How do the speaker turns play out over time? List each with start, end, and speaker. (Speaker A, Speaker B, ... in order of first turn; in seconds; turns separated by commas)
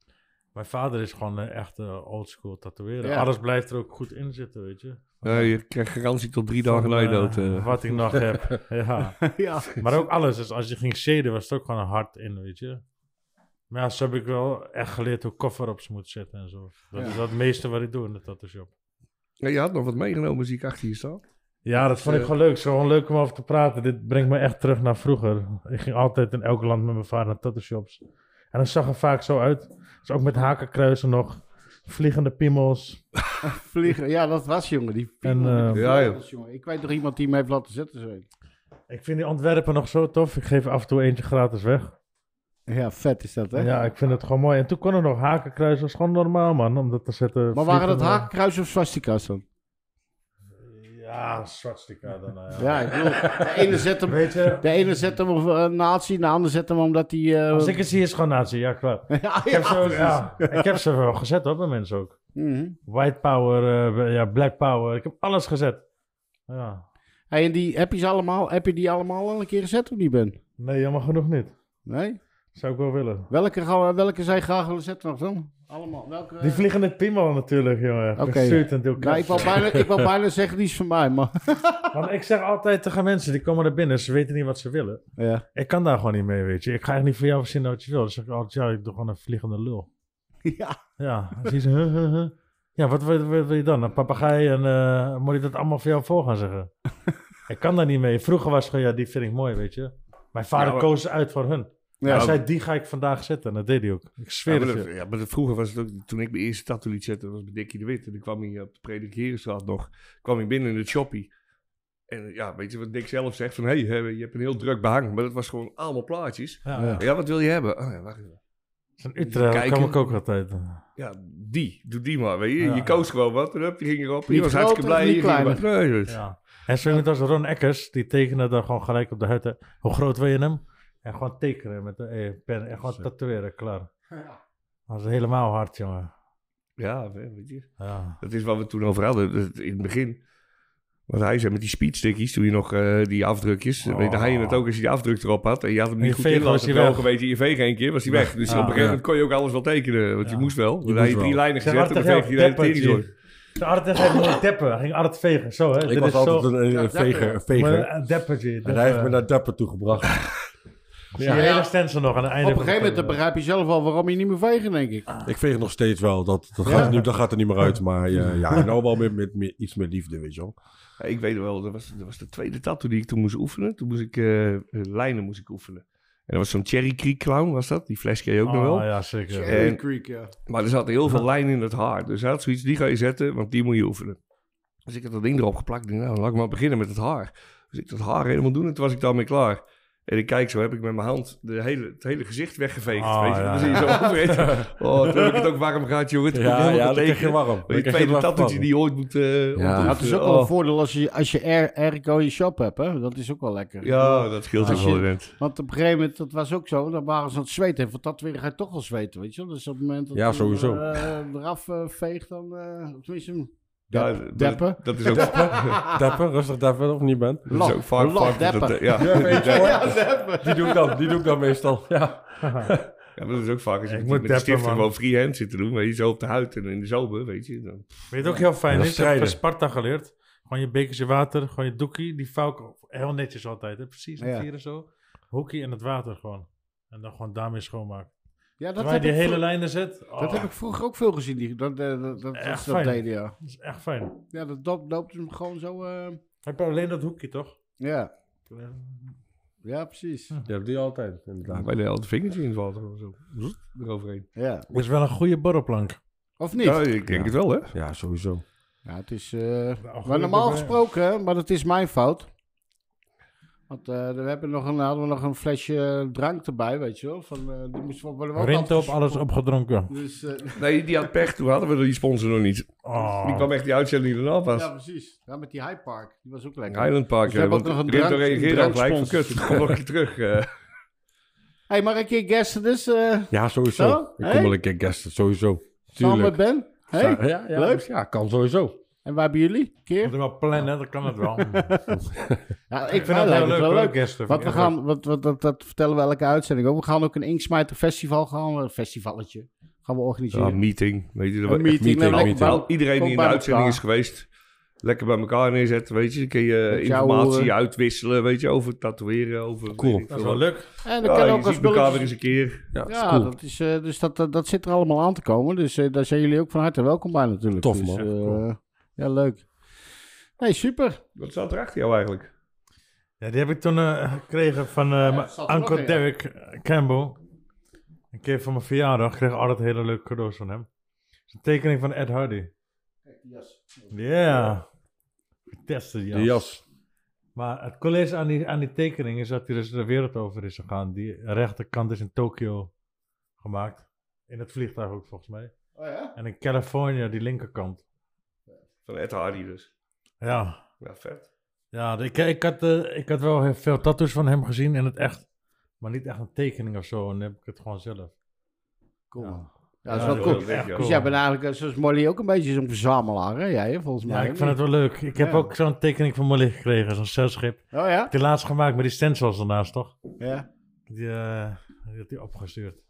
Speaker A: 0.6-5.5, Speaker B: 3.0-3.3, Speaker C: 5.2-7.7, Speaker A: 6.7-9.2, Speaker D: 8.1-8.6, Speaker B: 9.2-10.1, Speaker A: 9.8-12.8, Speaker A: 13.7-18.7, Speaker C: 19.4-21.2, Speaker A: 21.6-28.0, Speaker C: 22.0-22.3, Speaker A: 28.5-33.0, Speaker B: 33.4-38.3, Speaker A: 35.2-35.9, Speaker C: 35.7-36.2, Speaker A: 38.9-41.9, Speaker B: 42.7-43.7, Speaker A: 43.6-48.3, Speaker B: 47.5-49.4, Speaker A: 50.6-53.2, Speaker B: 52.6-57.8, Speaker A: 54.1-54.7, Speaker A: 57.5-62.2, Speaker B: 59.1-60.7, Speaker B: 62.4-62.8, Speaker A: 62.9-65.8, Speaker A: 66.5-66.8, Speaker B: 67.3-70.4, Speaker A: 70.6-71.5, Speaker B: 71.9-72.2, Speaker A: 72.5-73.3, Speaker B: 73.3-76.6, Speaker A: 76.4-79.8, Speaker B: 78.2-81.9, Speaker A: 81.9-85.0, Speaker B: 85.2-85.4, Speaker A: 85.5-89.9, Speaker B: 90.5-90.8, Speaker A: 91.0-96.7, Speaker A: 97.5-104.9, Speaker C: 100.6-100.9, Speaker B: 102.0-102.3, Speaker C: 102.0-102.4, Speaker C: 104.5-111.3, Speaker C: 112.1-118.4, Speaker A: 116.7-117.0, Speaker B: 116.8-117.0, Speaker A: 119.0-120.8, Speaker C: 119.2-120.0, Speaker C: 121.0-126.2, Speaker A: 122.6-123.1, Speaker B: 124.3-125.6, Speaker A: 126.1-133.9, Speaker A: 134.9-136.1, Speaker C: 136.8-140.2, Speaker A: 137.8-138.2, Speaker C: 141.1-153.1, Speaker A: 143.8-144.6, Speaker A: 146.0-147.1, Speaker A: 148.4-148.8, Speaker D: 148.7-149.0, Speaker A: 150.2-150.5, Speaker D: 150.8-151.4, Speaker A: 151.6-156.5, Speaker D: 155.8-157.9, Speaker B: 156.7-157.4, Speaker A: 157.5-159.2, Speaker D: 158.6-160.2, Speaker A: 161.2-163.2, Speaker D: 161.2-161.5, Speaker B: 161.2-161.7, Speaker B: 162.4-165.1, Speaker D: 165.2-170.6, Speaker B: 166.7-166.9, Speaker C: 171.0-178.9, Speaker A: 178.4-179.6, Speaker B: 179.3-180.3, Speaker C: 179.5-179.8, Speaker C: 180.5-184.2, Speaker C: 184.9-200.5, Speaker A: 193.0-194.1, Speaker D: 194.4-194.7, Speaker D: 196.3-198.7, Speaker D: 199.6-200.0, Speaker B: 199.8-216.0, Speaker C: 203.8-205.3, Speaker A: 204.6-204.9, Speaker D: 210.1-211.0, Speaker C: 213.9-215.8, Speaker D: 215.1-217.6, Speaker C: 217.5-219.8, Speaker B: 217.5-221.2, Speaker D: 219.0-222.9, Speaker A: 222.4-222.7, Speaker C: 223.2-228.0, Speaker A: 223.9-224.9, Speaker A: 228.1-238.1, Speaker D: 228.7-229.4, Speaker B: 234.2-234.5, Speaker B: 238.6-239.4, Speaker A: 238.8-240.5, Speaker B: 240.2-243.3, Speaker A: 242.3-244.2, Speaker B: 244.3-246.2, Speaker A: 246.4-247.6, Speaker B: 247.8-248.1, Speaker A: 248.5-249.1, Speaker B: 249.6-250.3, Speaker D: 250.5-251.7, Speaker C: 251.4-254.3, Speaker B: 254.4-254.7, Speaker A: 254.7-256.0, Speaker B: 256.4-256.8, Speaker C: 256.6-257.7, Speaker D: 257.1-258.4, Speaker B: 258.9-262.3, Speaker A: 259.8-260.8, Speaker B: 263.7-269.2, Speaker A: 268.4-269.9, Speaker B: 269.9-271.0, Speaker C: 270.6-274.7, Speaker A: 272.8-273.5, Speaker B: 274.5-279.7, Speaker C: 276.7-280.5, Speaker B: 281.7-284.6, Speaker D: 283.3-286.4, Speaker B: 286.0-287.8, Speaker D: 286.9-288.8, Speaker B: 289.0-290.2, Speaker A: 290.0-291.8, Speaker B: 291.5-292.0, Speaker D: 292.1-292.4, Speaker B: 292.7-300.6, Speaker A: 292.9-294.7, Speaker C: 294.4-294.6, Speaker C: 300.3-304.3, Speaker B: 301.5-303.8, Speaker D: 301.8-302.6, Speaker C: 304.8-310.5, Speaker B: 306.7-307.5, Speaker D: 309.7-310.1, Speaker A: 310.1-310.7, Speaker B: 310.8-312.1, Speaker C: 311.0-312.7, Speaker D: 312.7-313.3, Speaker B: 312.9-319.5, Speaker D: 317.6-318.1, Speaker A: 318.0-318.4, Speaker B: 320.4-321.0, Speaker C: 321.2-322.3, Speaker A: 323.2-327.2, Speaker B: 325.0-326.0, Speaker A: 328.1-330.7, Speaker A: 331.3-332.5, Speaker B: 333.1-333.9, Speaker A: 333.9-334.7, Speaker A: 335.6-336.5, Speaker D: 336.1-336.6, Speaker A: 337.4-342.7, Speaker A: 343.4-345.5, Speaker B: 345.8-346.1, Speaker A: 346.2-347.8, Speaker C: 348.9-349.7, Speaker A: 350.2-350.6, Speaker C: 350.8-351.3, Speaker A: 351.7-355.2, Speaker A: 355.8-358.1, Speaker B: 359.1-364.6, Speaker A: 359.2-361.1, Speaker C: 359.9-361.0, Speaker A: 364.1-370.0, Speaker B: 365.2-365.5, Speaker B: 367.7-368.1, Speaker B: 370.2-370.5, Speaker A: 370.9-372.8